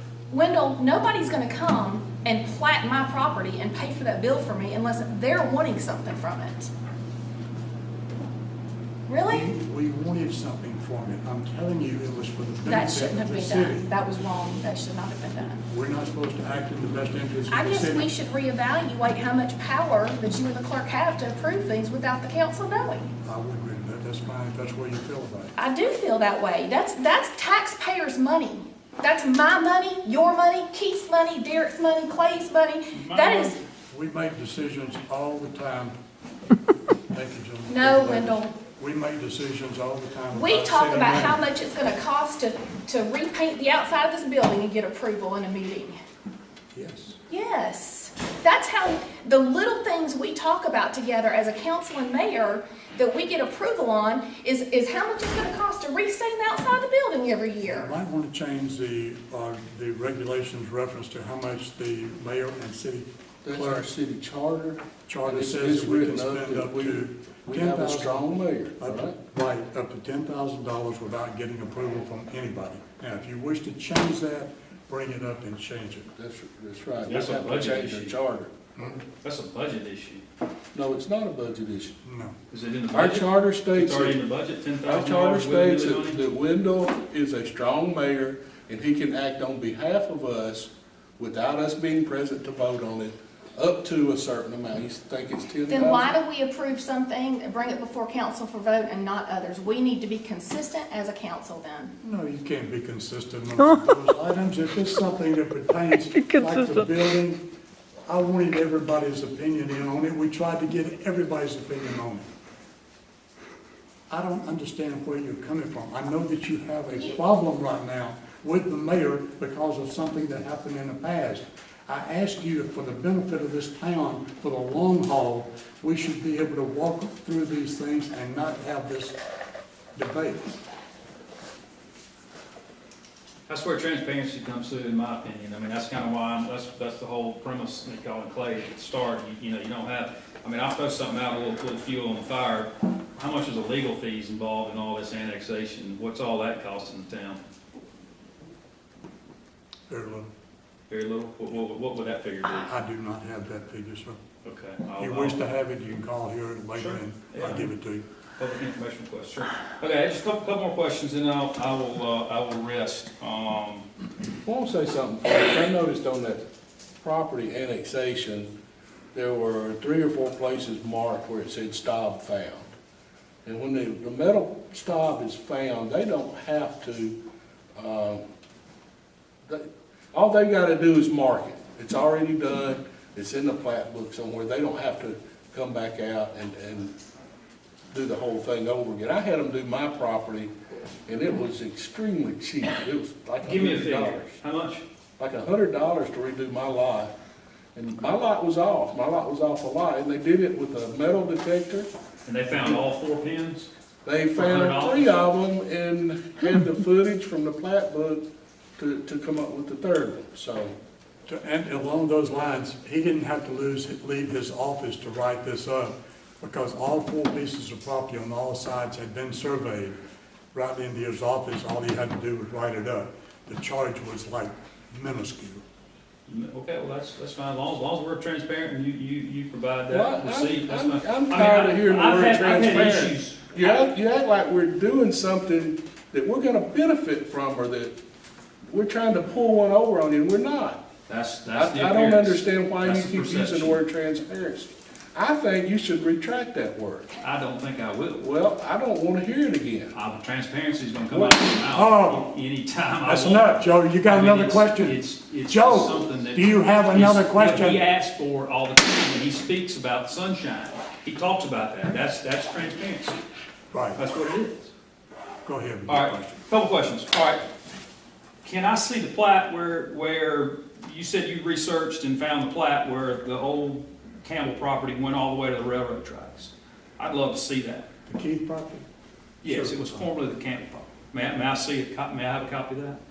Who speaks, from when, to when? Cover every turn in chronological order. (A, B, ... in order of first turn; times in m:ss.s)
0:00.3-0:06.7 A
0:09.1-0:09.5 A
0:09.3-0:13.8 B
0:12.6-0:15.6 A
0:15.7-0:18.1 B
0:17.5-0:23.1 A
0:23.2-0:25.5 B
0:25.6-0:33.6 A
0:32.9-0:33.5 C
0:33.9-0:36.0 B
0:37.1-0:41.4 B
0:37.7-0:38.5 A
0:40.3-0:46.0 A
0:46.7-0:47.2 B
0:47.3-0:57.9 A
0:57.6-1:03.8 B
1:03.4-1:09.2 D
1:05.1-1:16.1 B
1:16.2-1:18.5 D
1:17.0-1:18.2 C
1:19.2-1:20.2 C
1:20.7-1:22.0 D
1:22.0-1:22.4 B
1:22.5-1:26.2 C
1:22.9-1:24.2 D
1:24.8-1:36.1 D
1:35.7-1:41.9 A
1:42.0-1:47.4 B
1:48.1-1:52.3 B
1:54.1-2:09.2 B
2:10.0-2:10.5 B
2:13.5-2:27.4 C
2:29.9-2:30.3 B
2:30.9-2:32.7 C
2:32.5-2:34.2 B
2:34.4-2:35.4 C
2:35.0-2:38.0 B
2:36.7-2:37.6 C
2:38.4-2:43.9 C
2:44.4-2:46.4 D
2:47.0-2:48.5 D
2:49.1-2:52.7 D
2:53.4-2:57.2 D
2:57.8-2:58.2 D
2:59.4-3:06.9 D
3:07.9-3:10.5 D
3:11.1-3:14.3 D
3:13.4-3:14.8 C
3:15.2-3:17.1 D
3:17.7-3:21.9 D
3:22.2-3:23.7 C
3:22.5-3:22.8 D
3:24.0-3:28.2 D
3:24.4-3:25.1 C
3:28.8-3:30.7 D
3:31.2-3:40.0 B
3:40.5-3:45.6 B
3:46.3-3:53.8 C
3:49.9-3:58.0 D
3:58.6-4:00.8 D
4:01.1-4:03.8 C
4:01.5-4:07.1 D
4:07.2-4:08.2 C
4:08.2-4:10.0 D
4:09.9-4:23.2 C
4:11.1-4:11.4 D
4:11.7-4:12.3 B
4:13.0-4:17.8 B
4:23.7-4:24.0 B
4:24.0-4:24.7 C
4:25.4-4:26.4 B
4:25.9-4:27.4 C
4:28.4-4:37.9 C
4:38.1-4:38.8 B
4:39.4-4:43.0 C
4:39.4-4:40.0 B